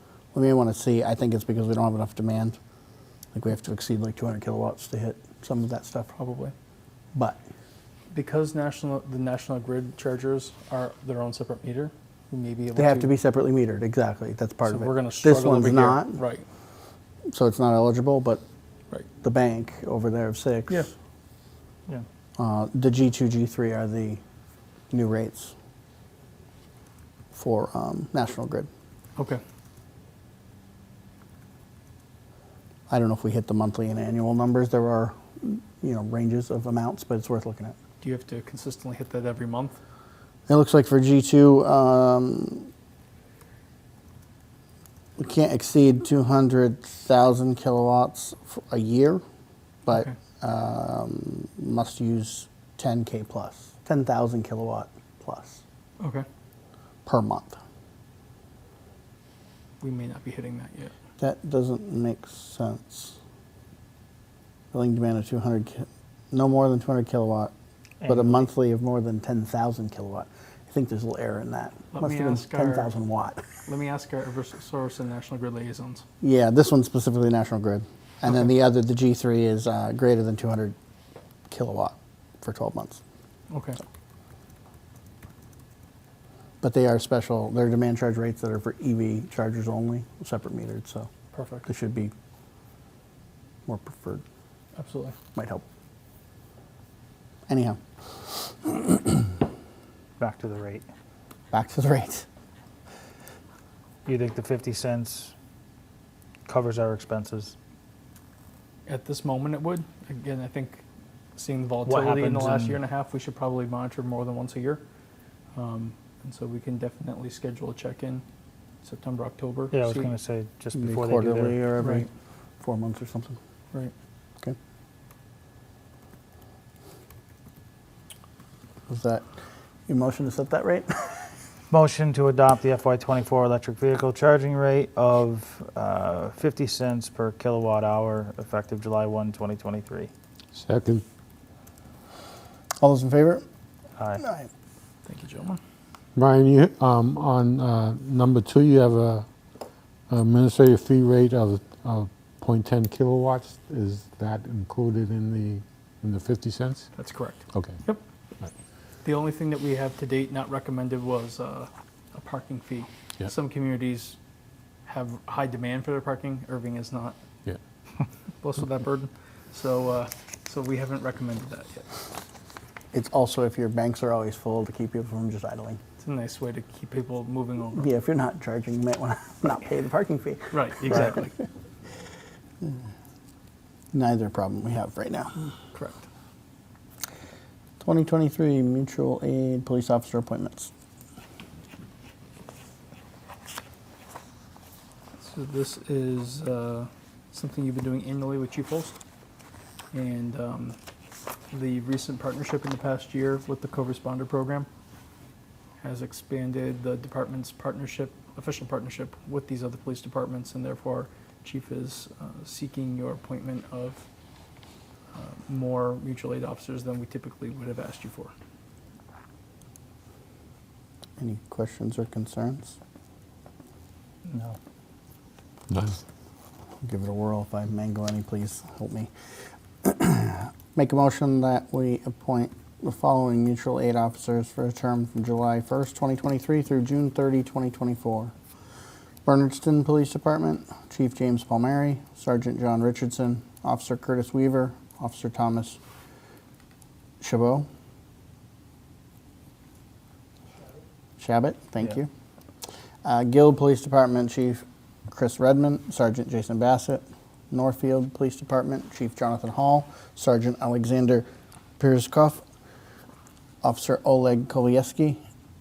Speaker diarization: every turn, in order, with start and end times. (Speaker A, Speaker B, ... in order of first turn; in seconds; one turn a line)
Speaker A: 0.3-2.6
Speaker A: 3.3-6.1
Speaker B: 6.2-6.5
Speaker A: 7.2-7.4
Speaker B: 8.1-13.1
Speaker A: 12.8-16.2
Speaker B: 14.7-16.4
Speaker A: 17.3-18.4
Speaker A: 19.2-20.9
Speaker A: 22.4-24.2
Speaker A: 24.9-25.5
Speaker A: 27.3-28.7
Speaker A: 32.9-37.8
Speaker B: 38.0-39.8
Speaker A: 40.5-42.7
Speaker A: 45.2-49.2
Speaker A: 49.9-55.6
Speaker B: 56.0-56.2
Speaker A: 57.1-57.6
Speaker B: 59.8-60.9
Speaker A: 61.2-63.2
Speaker A: 64.7-67.5
Speaker C: 68.0-68.5
Speaker A: 68.0-73.5
Speaker B: 71.9-72.9
Speaker B: 73.7-76.0
Speaker A: 76.2-80.8
Speaker A: 81.5-83.0
Speaker B: 83.5-83.8
Speaker A: 86.6-91.1
Speaker B: 91.3-91.7
Speaker A: 91.7-92.1
Speaker A: 93.7-94.2
Speaker B: 94.8-95.2
Speaker A: 95.3-95.6
Speaker A: 97.5-97.8
Speaker A: 98.3-99.2
Speaker C: 100.2-100.9
Speaker A: 101.5-102.3
Speaker C: 104.1-105.3
Speaker C: 106.5-107.5
Speaker B: 108.9-110.8
Speaker B: 111.3-114.8
Speaker C: 111.8-112.8
Speaker B: 115.5-118.2
Speaker B: 118.8-120.1
Speaker C: 119.7-121.6
Speaker A: 120.7-122.1
Speaker B: 121.8-122.1
Speaker A: 122.6-123.4
Speaker A: 128.9-129.3
Speaker A: 129.9-131.3
Speaker C: 131.7-140.1
Speaker D: 140.5-141.0
Speaker A: 142.8-143.4
Speaker C: 144.0-144.2
Speaker A: 144.2-144.5
Speaker B: 145.1-145.6
Speaker D: 146.2-149.3
Speaker D: 150.1-156.9
Speaker B: 156.9-158.0
Speaker D: 157.5-157.8
Speaker B: 159.0-164.2
Speaker B: 164.9-167.2
Speaker B: 168.4-171.9
Speaker A: 172.9-175.8
Speaker B: 176.0-177.9
Speaker A: 177.8-181.3
Speaker B: 180.5-181.3
Speaker A: 183.9-185.4
Speaker B: 185.7-186.0
Speaker A: 187.8-190.7
Speaker B: 195.2-199.0
Speaker B: 199.9-200.8
Speaker B: 201.5-204.7
Speaker B: 205.8-214.1
Speaker B: 215.1-218.3
Speaker A: 221.2-222.8
Speaker D: 225.7-226.0
Speaker A: 226.8-229.1
Speaker A: 229.8-238.3
Speaker A: 239.3-245.8
Speaker A: 247.2-247.7
Speaker A: 251.2-252.1
Speaker A: 253.0-261.3
Speaker A: 261.8-262.4
Speaker A: 263.6-265.2